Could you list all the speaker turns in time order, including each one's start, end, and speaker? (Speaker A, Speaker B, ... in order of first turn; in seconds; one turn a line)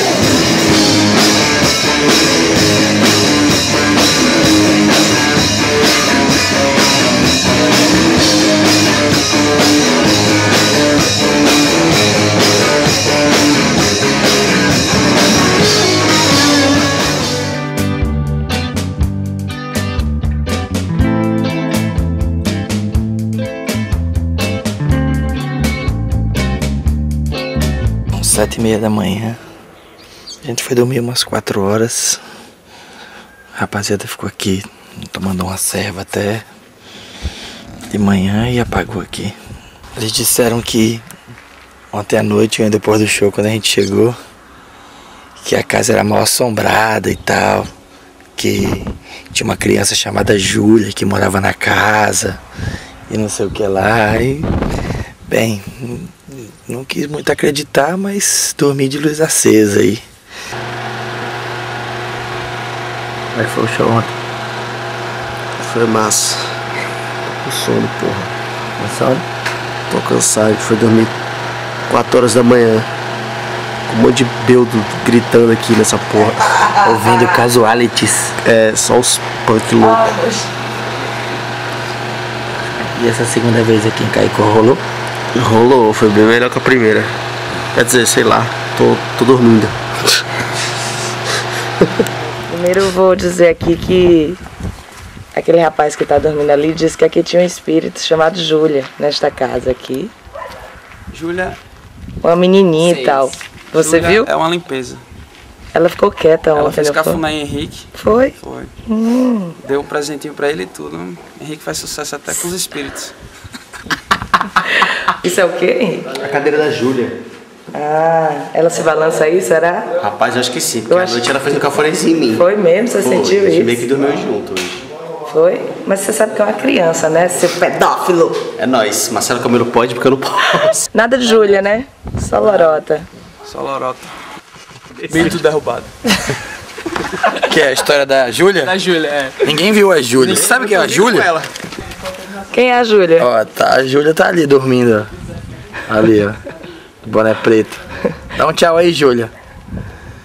Speaker A: 28.1-29.4
Speaker A: 30.4-32.2
Speaker A: 33.6-36.5
Speaker A: 37.9-39.4
Speaker A: 40.0-41.1
Speaker A: 41.9-44.2
Speaker A: 45.4-47.7
Speaker A: 48.4-52.4
Speaker A: 53.1-54.5
Speaker A: 55.3-60.0
Speaker A: 63.3-64.1
Speaker B: 65.6-66.5
Speaker B: 67.3-68.3
Speaker A: 68.8-69.2
Speaker B: 69.9-71.1
Speaker B: 71.9-72.9
Speaker B: 73.9-76.6
Speaker A: 76.8-78.4
Speaker B: 78.4-80.2
Speaker A: 83.0-84.8
Speaker B: 85.3-87.1
Speaker B: 87.8-90.2
Speaker C: 92.5-94.4
Speaker C: 95.3-100.1
Speaker D: 101.1-101.5
Speaker C: 102.2-104.3
Speaker D: 103.8-105.0
Speaker C: 105.7-107.2
Speaker D: 106.6-107.9
Speaker C: 108.0-109.6
Speaker D: 109.7-113.1
Speaker C: 114.6-116.1
Speaker B: 116.1-117.2
Speaker C: 117.7-119.9
Speaker B: 120.0-122.5
Speaker C: 120.9-121.3
Speaker C: 122.3-123.8
Speaker B: 123.0-124.9
Speaker C: 125.3-128.4
Speaker B: 128.5-130.8
Speaker C: 130.9-133.1
Speaker D: 133.5-134.1
Speaker D: 135.0-135.9
Speaker A: 137.2-138.8
Speaker D: 138.7-139.4
Speaker A: 139.3-141.4
Speaker D: 140.3-141.2
Speaker C: 142.4-143.3
Speaker A: 143.2-145.1
Speaker A: 145.9-146.4
Speaker A: 147.0-149.3